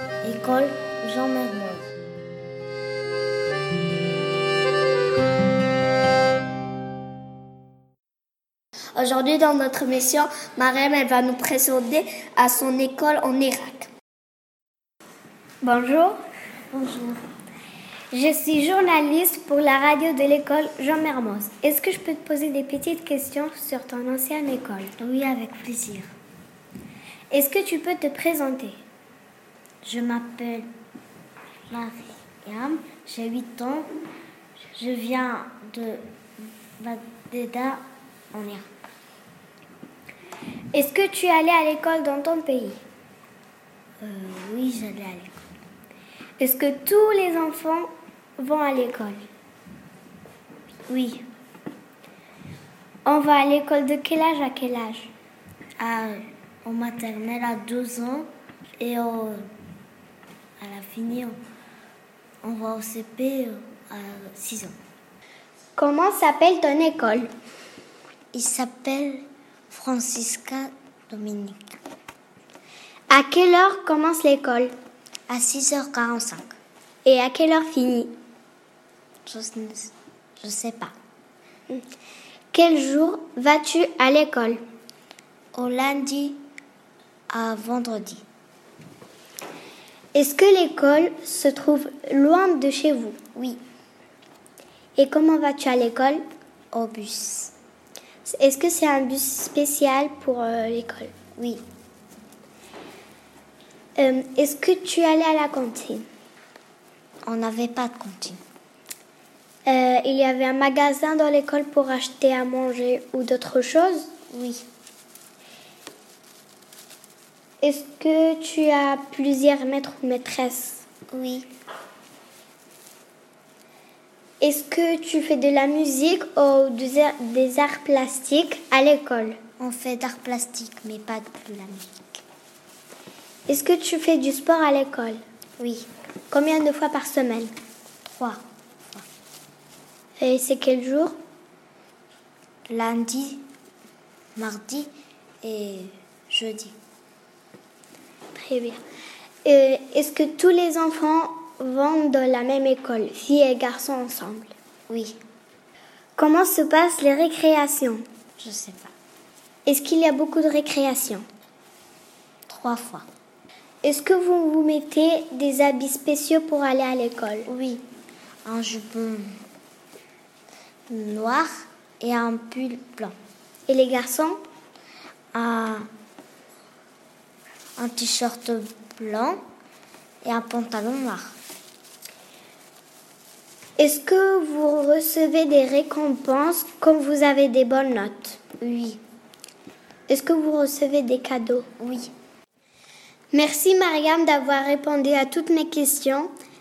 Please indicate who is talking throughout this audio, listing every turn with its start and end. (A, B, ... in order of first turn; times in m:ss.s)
0:00.2-0:01.9 A
0:09.0-0:13.9 B
0:15.6-0:16.2 C
0:16.7-0:17.2 A
0:18.1-0:24.9 C
0:25.0-0:26.0 A
0:27.3-0:28.8 C
0:29.8-0:30.7 A
0:31.7-0:33.9 A
0:34.7-0:36.0 A
0:36.8-0:37.8 A
0:38.3-0:38.7 A
0:40.7-0:42.8 C
0:44.0-0:45.4 A
0:46.4-0:49.3 C
0:50.9-0:51.2 A
0:53.0-0:55.1 C
0:55.8-0:59.4 A
1:00.6-1:01.4 A
1:02.4-1:04.7 A
1:05.8-1:07.3 C
1:08.3-1:11.8 A
1:13.1-1:14.7 C
1:15.3-1:16.5 A
1:17.0-1:18.1 C
1:19.2-1:20.9 A
1:22.5-1:24.6 C
1:25.5-1:26.4 A
1:27.3-1:28.2 A
1:30.1-1:33.2 C
1:33.3-1:33.6 A
1:35.0-1:36.2 C
1:36.7-1:37.5 A
1:38.2-1:41.1 C
1:41.4-1:41.6 A
1:44.0-1:46.0 C
1:47.2-1:48.4 A
1:49.6-1:54.1 C
1:54.3-1:54.6 A
1:57.6-2:00.8 C
2:01.1-2:01.5 A
2:04.4-2:09.4 C
2:09.6-2:12.2 A
2:13.5-2:15.2 C
2:15.6-2:15.9 A
2:16.3-2:17.5 C
2:18.0-2:18.4 A
2:20.2-2:21.1 C
2:22.7-2:23.4 A
2:24.4-2:24.9 A
2:25.4-2:26.7 A
2:28.3-2:28.8 C
2:29.4-2:34.5 C
2:34.9-2:35.2 A
2:36.2-2:38.0 C
2:38.4-2:38.9 A
2:39.6-2:41.2 C
2:42.5-2:43.0 A
2:43.8-2:47.5 C
2:47.5-2:47.8 A
2:48.4-2:49.3 A
2:50.9-2:53.1 A
2:53.7-2:54.4 C
2:55.3-2:55.9 A
2:57.8-2:59.4 A
3:00.2-3:01.4 A
3:03.8-3:08.4 C
3:08.6-3:09.0 A
3:10.1-3:11.7 C
3:11.8-3:12.1 A
3:13.3-3:16.3 C